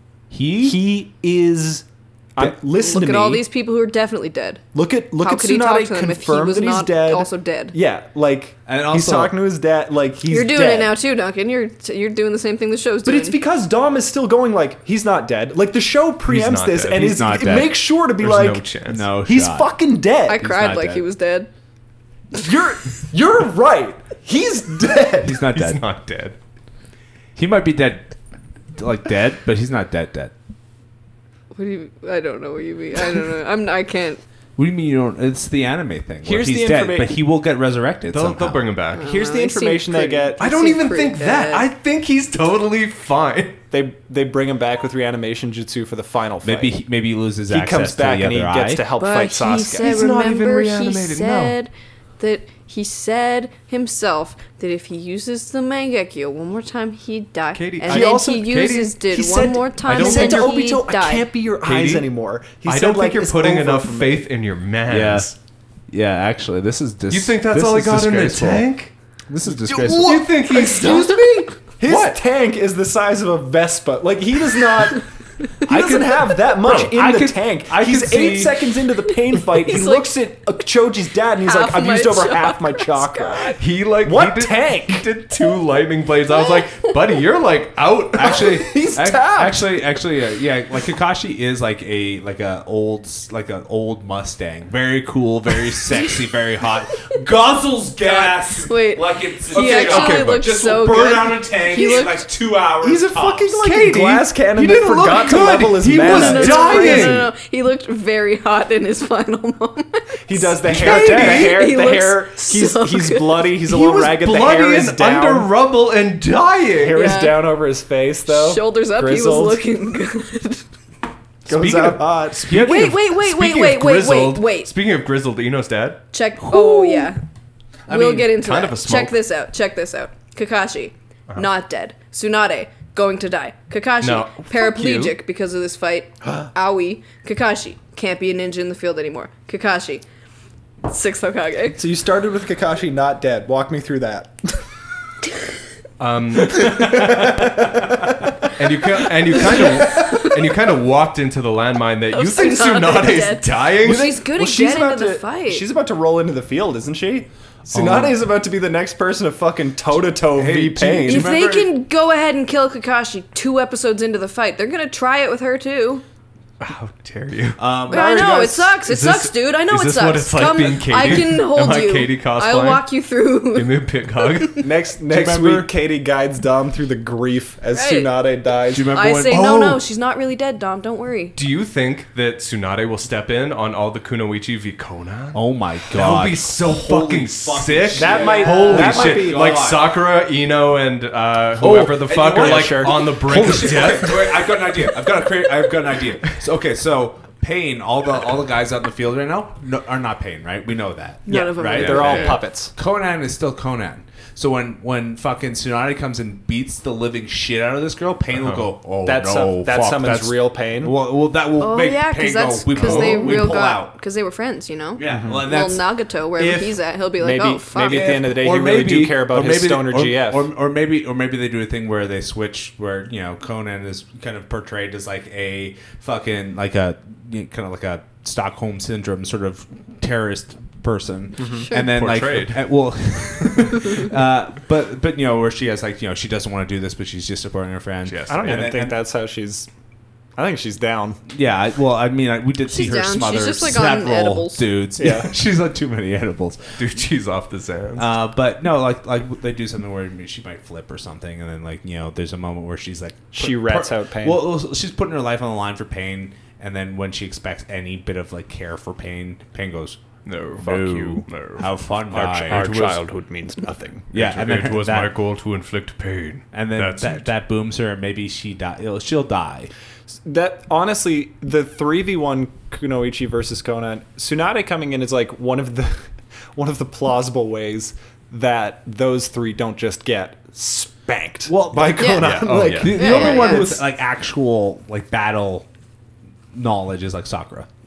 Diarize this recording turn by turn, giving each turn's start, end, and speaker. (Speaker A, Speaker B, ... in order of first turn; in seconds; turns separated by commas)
Speaker A: 0.3-0.9, Speaker B: 0.6-3.5, Speaker C: 2.8-4.7, Speaker B: 4.7-10.9, Speaker C: 5.2-7.8, Speaker A: 8.7-9.3, Speaker C: 10.3-13.4, Speaker B: 13.1-20.4, Speaker D: 16.3-17.2, Speaker A: 16.9-17.8, Speaker D: 18.2-19.1, Speaker A: 18.9-19.7, Speaker C: 20.3-21.5, Speaker A: 20.4-21.1, Speaker B: 22.3-25.5, Speaker A: 25.2-25.8, Speaker D: 25.5-26.4, Speaker A: 27.4-28.1, Speaker A: 28.8-30.3, Speaker C: 31.6-34.2, Speaker A: 34.6-38.6, Speaker B: 36.2-37.2, Speaker D: 38.1-39.1, Speaker C: 38.9-41.7, Speaker B: 39.0-40.4, Speaker D: 40.4-43.6, Speaker B: 43.7-46.8, Speaker A: 46.4-48.9, Speaker B: 47.5-50.0, Speaker C: 49.0-61.3, Speaker D: 49.8-51.6, Speaker D: 57.5-58.9, Speaker B: 57.9-64.2, Speaker D: 59.9-60.6, Speaker D: 61.6-62.1, Speaker D: 62.6-65.3, Speaker A: 64.9-65.3, Speaker A: 65.9-68.7, Speaker D: 67.1-68.9, Speaker A: 69.3-70.3, Speaker D: 69.6-72.2, Speaker B: 70.0-71.2, Speaker B: 71.8-75.1, Speaker B: 75.6-85.1, Speaker A: 75.7-78.7, Speaker C: 79.4-80.1, Speaker C: 81.4-83.6, Speaker D: 83.6-88.6, Speaker A: 88.2-103.6, Speaker B: 88.4-89.7, Speaker D: 98.0-98.4, Speaker C: 98.6-102.3, Speaker D: 99.5-101.3, Speaker B: 102.8-107.3, Speaker D: 103.5-107.3, Speaker C: 106.0-113.5, Speaker B: 110.3-115.5, Speaker D: 110.7-111.8, Speaker A: 110.8-111.4, Speaker D: 113.6-117.2, Speaker B: 116.8-119.7, Speaker C: 116.9-117.6, Speaker C: 118.3-120.7, Speaker B: 121.5-122.8, Speaker A: 121.5-123.0, Speaker D: 121.5-126.0, Speaker C: 122.5-124.7, Speaker C: 126.1-127.2, Speaker A: 126.4-127.1, Speaker A: 127.9-128.2, Speaker C: 127.9-140.0, Speaker D: 128.2-129.2, Speaker D: 134.0-135.2, Speaker C: 140.8-141.8, Speaker B: 141.8-144.6, Speaker D: 146.0-147.2, Speaker B: 146.4-148.2, Speaker D: 148.6-154.2, Speaker B: 149.3-150.3, Speaker C: 152.1-155.7, Speaker B: 153.8-161.3, Speaker D: 157.7-158.0, Speaker A: 160.3-161.7, Speaker C: 161.1-166.0, Speaker D: 166.6-167.6, Speaker A: 167.6-168.7, Speaker C: 167.9-174.7, Speaker B: 167.9-168.6, Speaker D: 168.8-172.8, Speaker D: 173.5-174.7, Speaker B: 174.6-179.0, Speaker A: 175.1-175.7, Speaker C: 177.7-178.2, Speaker A: 178.7-179.6, Speaker C: 178.8-181.4, Speaker D: 179.3-179.8, Speaker D: 181.3-194.5, Speaker A: 185.3-189.9, Speaker B: 187.9-189.7, Speaker C: 188.1-188.7, Speaker A: 191.6-214.0, Speaker B: 192.1-193.2, Speaker B: 201.3-202.7, Speaker C: 201.3-202.4, Speaker D: 201.8-202.4, Speaker D: 208.3-208.7, Speaker B: 209.1-210.9, Speaker C: 211.6-218.2, Speaker B: 212.8-213.4, Speaker A: 215.0-215.9, Speaker B: 215.0-215.5, Speaker B: 216.4-220.5, Speaker A: 217.9-239.0, Speaker B: 231.4-231.7, Speaker C: 231.6-231.9, Speaker D: 231.7-232.7, Speaker D: 238.1-238.7, Speaker B: 238.3-239.7, Speaker B: 240.4-241.2, Speaker A: 241.3-246.8, Speaker C: 242.7-244.7, Speaker B: 245.0-245.4, Speaker D: 246.8-248.1, Speaker A: 248.0-260.0, Speaker B: 253.3-254.4, Speaker D: 260.3-261.7, Speaker B: 260.6-261.3, Speaker A: 260.6-263.0, Speaker B: 262.1-264.1, Speaker D: 262.4-263.0, Speaker D: 264.1-267.3, Speaker A: 264.1-265.1, Speaker A: 266.5-269.7, Speaker B: 270.2-283.8, Speaker A: 281.5-282.1, Speaker C: 282.0-282.2, Speaker D: 282.0-283.4, Speaker A: 282.8-285.7, Speaker C: 282.9-283.7, Speaker A: 286.5-287.7